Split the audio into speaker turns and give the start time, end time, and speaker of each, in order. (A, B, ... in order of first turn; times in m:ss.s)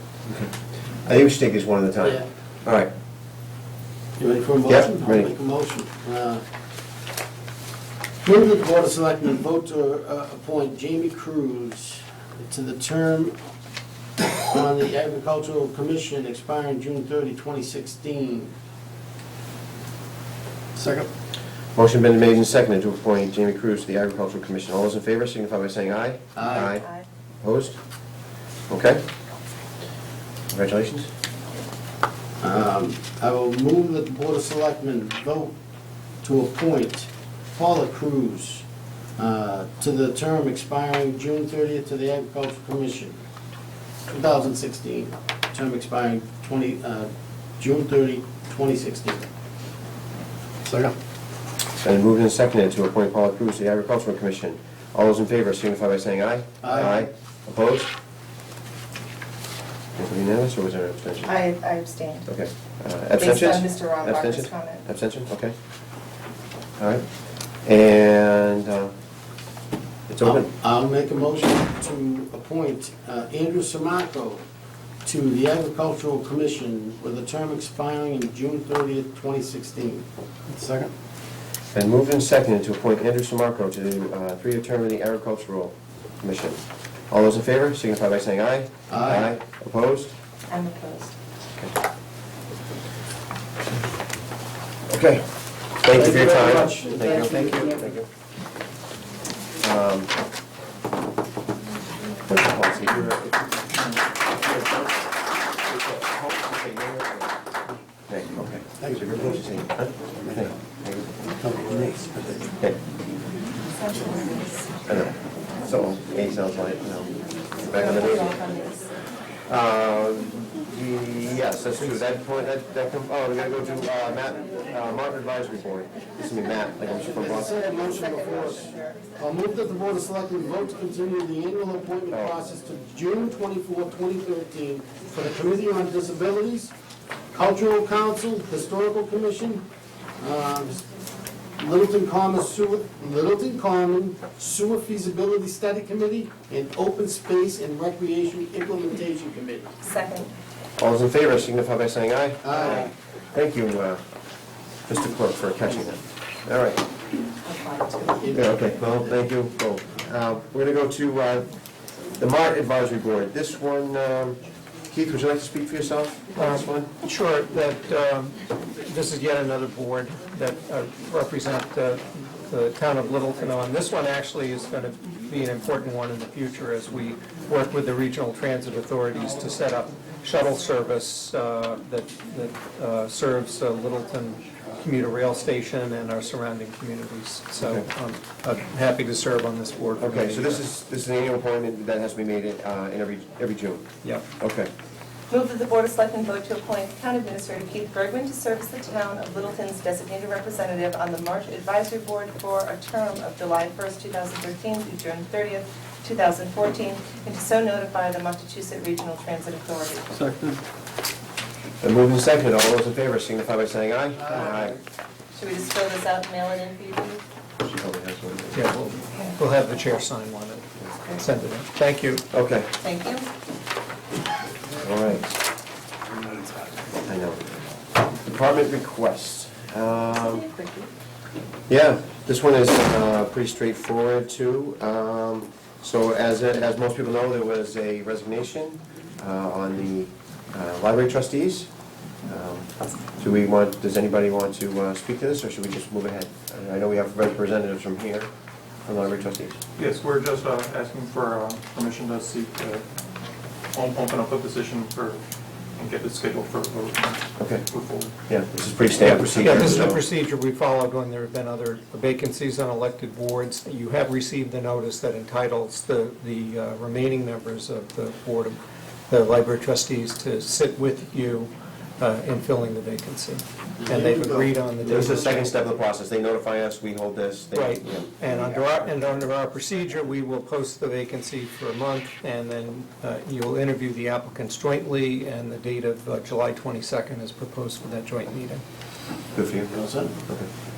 0:00.2-0:02.9 A
0:04.2-0:06.4 B
0:04.7-0:05.3 A
0:08.2-0:13.4 B
0:14.4-0:18.5 B
0:20.7-0:21.1 B
0:21.7-0:26.8 A
0:26.4-0:26.7 B
0:26.4-0:27.0 C
0:27.4-0:27.8 A
0:28.7-0:29.0 A
0:30.5-0:31.1 A
0:32.4-0:35.5 B
0:36.2-0:38.6 B
0:39.2-0:43.2 B
0:44.1-0:49.3 B
0:50.6-0:50.9 B
0:51.8-0:57.9 A
0:56.6-0:57.1 B
1:00.0-1:01.4 A
1:01.2-1:02.3 C
1:02.3-1:05.5 A
1:03.2-1:04.8 C
1:06.8-1:07.0 A
1:07.6-1:08.9 A
1:10.1-1:10.5 A
1:10.2-1:14.4 B
1:15.0-1:20.9 B
1:21.7-1:30.1 A
1:28.9-1:29.3 B
1:30.5-1:31.1 C
1:34.9-1:38.0 A
1:35.9-1:38.0 B
1:39.6-1:40.1 A
1:42.3-1:43.4 A
1:45.7-1:47.3 A
1:48.1-1:51.1 A
1:48.8-1:49.4 B
1:50.2-1:50.5 B
1:51.2-1:52.5 B
1:53.8-1:54.7 C
1:54.9-1:58.4 A
1:57.6-1:58.9 C
1:59.5-2:07.6 A
2:07.0-2:16.7 B
2:07.8-2:09.0 C
2:17.3-2:19.6 B
2:20.2-2:20.8 B
2:21.6-2:29.8 B
2:29.8-2:30.3 C
2:30.8-2:34.0 A
2:32.4-2:32.9 B
2:34.8-2:36.8 A
2:37.4-2:38.3 C
2:38.2-2:39.2 B
2:38.3-2:41.5 A
2:42.2-2:46.9 A
2:46.4-3:10.6 D
3:07.6-3:07.8 A
3:10.0-3:13.8 A
3:14.4-3:14.7 A
3:15.3-3:30.1 C
3:30.1-3:30.6 B
3:31.8-3:34.8 A
3:35.3-3:37.2 C
3:37.6-3:38.7 A
3:38.5-3:42.2 D
3:39.0-3:39.4 C
3:41.0-3:41.2 C
3:42.3-3:42.7 A
3:42.8-3:43.3 C
3:44.8-3:45.3 A
3:47.0-3:47.4 A
3:48.2-3:50.4 A
3:50.2-3:50.9 C
3:51.7-4:01.7 A
4:02.2-4:08.3 A
4:08.8-4:09.6 A
4:09.8-4:12.9 E
4:13.7-4:15.2 E
4:15.8-4:18.1 E
4:17.4-4:17.6 A
4:18.2-4:20.0 A
4:19.0-4:35.4 D
4:33.8-4:35.3 B
4:34.9-4:39.1 A
4:37.5-4:48.6 D
4:49.3-4:49.7 A
4:49.7-4:50.2 B